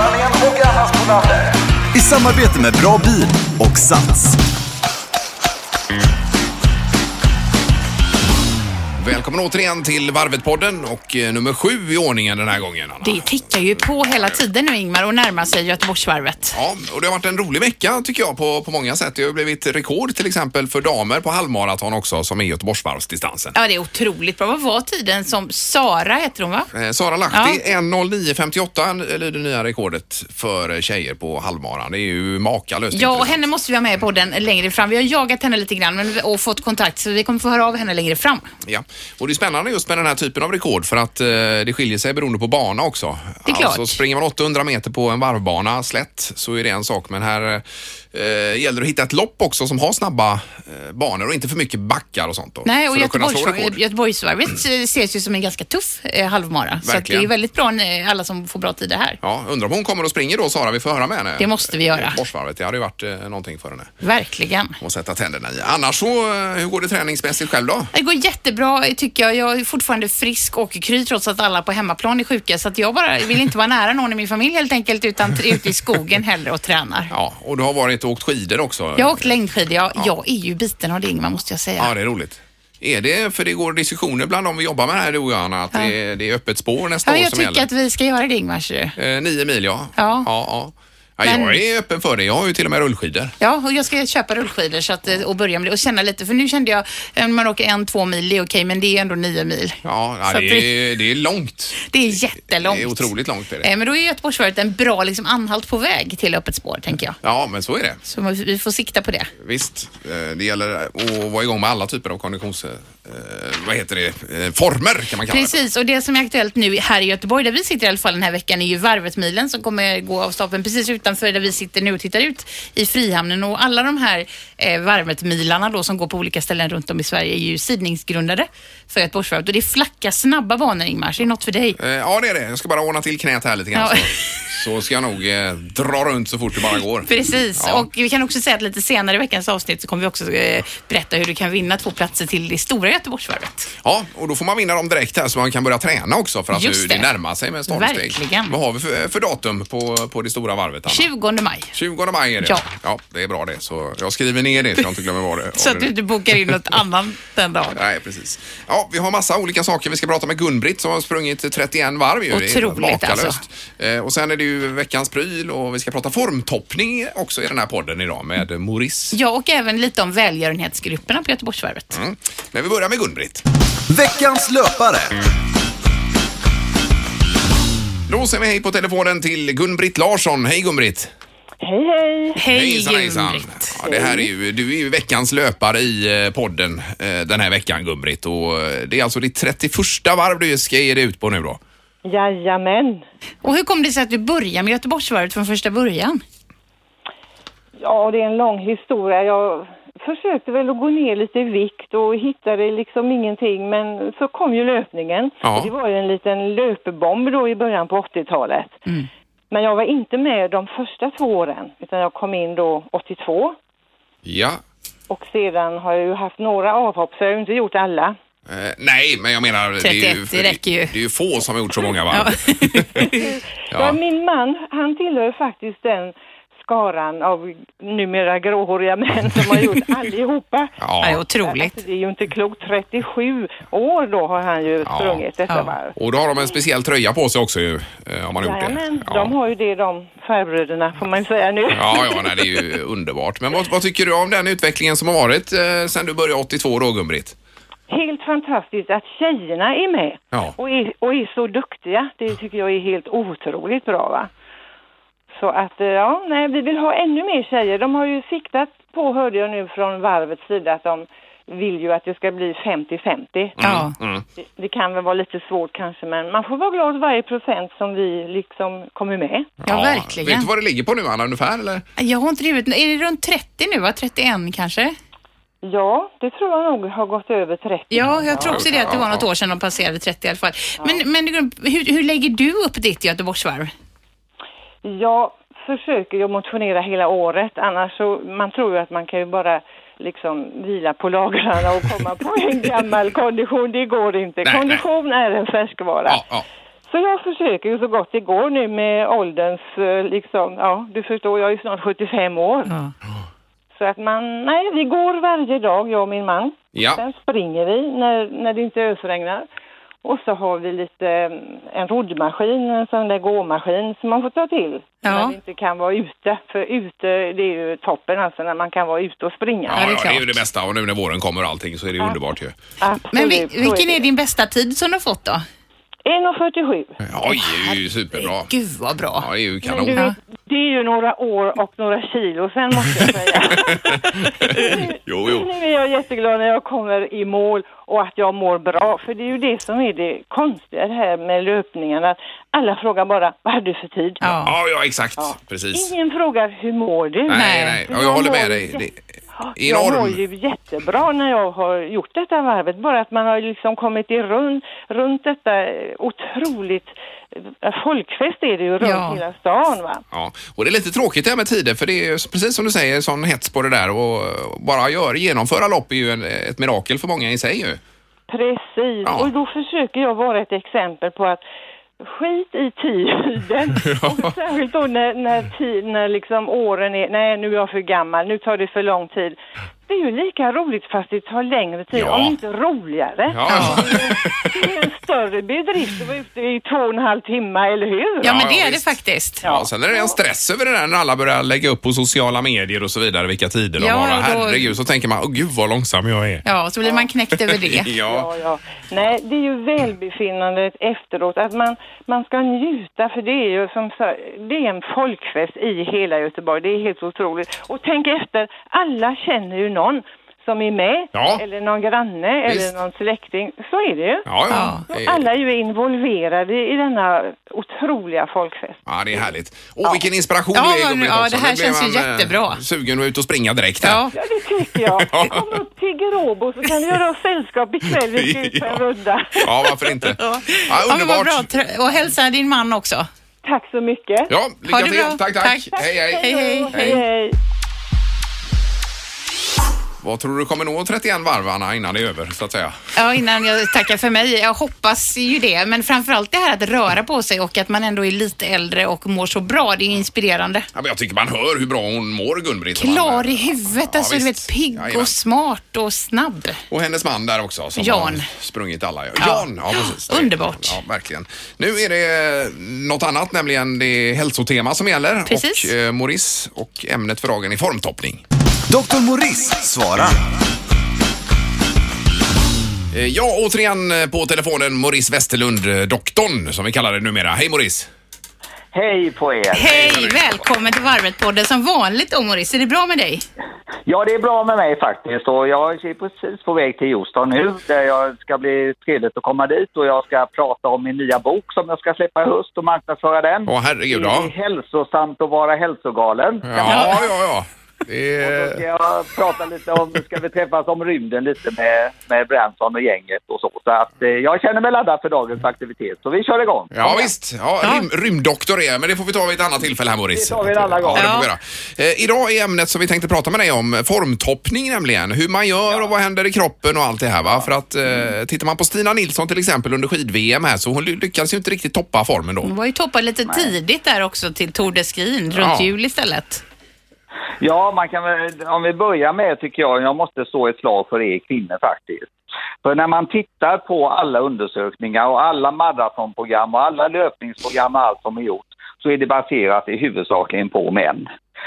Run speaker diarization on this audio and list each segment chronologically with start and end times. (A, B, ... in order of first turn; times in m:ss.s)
0:00.4-0:01.0 A
0:01.9-0:04.4 B
0:09.0-0:14.4 C
0:13.0-0:16.6 D
0:16.5-0:23.5 C
0:23.5-0:26.7 D
0:26.7-0:33.4 C
0:27.3-0:27.6 D
0:32.9-0:38.5 D
0:38.6-0:53.8 C
0:43.4-0:44.0 D
0:52.6-0:59.2 D
0:56.8-0:57.3 C
0:59.2-1:04.0 C
1:01.4-1:02.2 D
1:04.0-1:04.8 D
1:04.8-1:07.9 C
1:07.9-1:17.1 D
1:17.1-1:19.3 C
1:19.0-1:21.9 D
1:21.8-1:27.7 C
1:27.0-1:29.0 D
1:29.0-1:33.3 C
1:30.0-1:30.3 D
1:31.2-1:31.6 D
1:33.4-1:40.7 D
1:39.8-1:41.8 C
1:41.8-1:43.0 D
1:42.6-1:43.7 C
1:43.6-1:47.2 D
1:47.2-1:48.0 C
1:48.0-1:49.3 D
1:49.4-1:55.6 C
1:55.3-2:11.8 D
2:11.8-2:17.9 C
2:13.8-2:14.4 D
2:17.0-2:23.7 D
2:23.8-2:31.1 C
2:26.5-2:27.1 D
2:27.7-2:28.5 D
2:30.9-2:31.7 D
2:31.7-2:35.9 C
2:35.6-2:37.8 D
2:37.7-2:49.2 C
2:42.3-2:43.4 D
2:49.1-2:52.0 D
2:51.9-2:53.4 C
2:53.9-2:55.2 B
2:58.1-3:01.1 C
3:01.6-3:02.4 E
3:02.4-3:03.8 D
3:02.5-3:11.6 C
3:12.0-3:13.0 E
3:13.4-3:16.2 D
3:17.8-3:28.8 E
3:25.4-3:25.7 C
3:29.5-3:33.6 E
3:34.2-3:34.6 C
3:35.1-3:38.2 E
3:38.5-3:43.0 C
3:39.8-3:40.9 D
3:42.1-3:43.3 D
3:43.0-3:50.8 E
3:43.7-3:44.0 C
3:50.8-3:51.2 C
3:51.0-3:51.8 D
3:51.4-3:55.9 E
3:54.8-3:55.2 C
3:55.5-3:55.7 D
3:55.9-3:59.3 C
3:58.4-4:02.6 E
4:01.7-4:07.4 C
4:07.9-4:14.3 E
4:15.3-4:23.6 E
4:23.6-4:24.2 C
4:23.6-4:23.9 D
4:24.4-4:29.5 E
4:29.6-4:30.5 D
4:29.7-4:31.8 C
4:32.0-4:34.9 D
4:35.6-4:38.9 E
4:37.9-4:43.7 D
4:38.3-4:39.2 C
4:44.8-4:56.2 E
4:54.4-4:54.8 C
4:56.0-4:56.4 C
4:56.9-5:02.8 E
5:02.7-5:02.9 D
5:03.7-5:09.4 E
5:06.7-5:07.0 C
5:10.0-5:19.8 E
5:15.0-5:15.4 D
5:19.7-5:22.6 C
5:19.7-5:20.2 D
5:22.8-5:24.0 E
5:23.1-5:25.4 D
5:26.0-5:27.0 E
5:27.0-5:28.5 C
5:27.2-5:29.3 D
5:29.2-5:30.0 C
5:29.6-5:44.2 E
5:34.4-5:35.5 C
5:44.2-5:44.5 D
5:44.4-5:45.9 C
5:45.2-5:48.8 E
5:47.3-5:49.0 C
5:47.3-5:47.8 D
5:49.4-6:00.0 E
5:49.6-5:50.2 C
5:58.8-5:59.2 D
6:00.1-6:07.8 C
6:08.3-6:11.4 E
6:09.0-6:09.3 C
6:12.0-6:28.4 E
6:13.8-6:14.3 C
6:21.9-6:22.3 C
6:23.3-6:24.5 C
6:23.5-6:23.8 D
6:28.2-6:29.5 D
6:28.2-6:36.4 C
6:29.4-6:30.1 E
6:33.8-6:34.7 D
6:36.4-6:37.9 D
6:37.4-6:38.3 C
6:38.0-6:54.3 E
6:51.1-6:51.4 C
6:54.2-6:55.2 C
6:54.5-6:54.8 D
6:54.9-6:58.8 E
6:58.8-7:04.0 C
7:00.5-7:02.6 D
7:03.8-7:04.1 D
7:04.1-7:09.7 E
7:05.0-7:05.4 C
7:08.1-7:08.8 C
7:09.4-7:11.5 C
7:10.2-7:13.1 D
7:13.4-7:14.3 E
7:14.3-7:17.0 C
7:14.7-7:17.0 D
7:15.8-7:17.4 E
7:20.0-7:22.8 C
7:23.0-7:30.7 D
7:30.7-7:35.1 C
7:32.8-7:36.6 D
7:36.7-7:48.2 C
7:37.8-7:38.3 D
7:39.2-7:40.8 D
7:45.3-7:45.7 D
7:48.7-7:50.2 B
7:52.9-7:57.9 C
7:58.7-8:00.1 A
7:59.5-8:03.2 D
7:59.7-8:00.4 C
8:03.8-8:17.0 A
8:13.5-8:14.3 C
8:16.4-8:18.6 C
8:16.6-8:17.0 D
8:18.2-8:27.1 A
8:26.7-8:42.5 C
8:30.1-8:31.1 A
8:30.9-8:31.3 D
8:42.4-8:46.4 D
8:43.3-8:43.5 A
8:45.3-8:45.7 C
8:47.4-9:01.1 A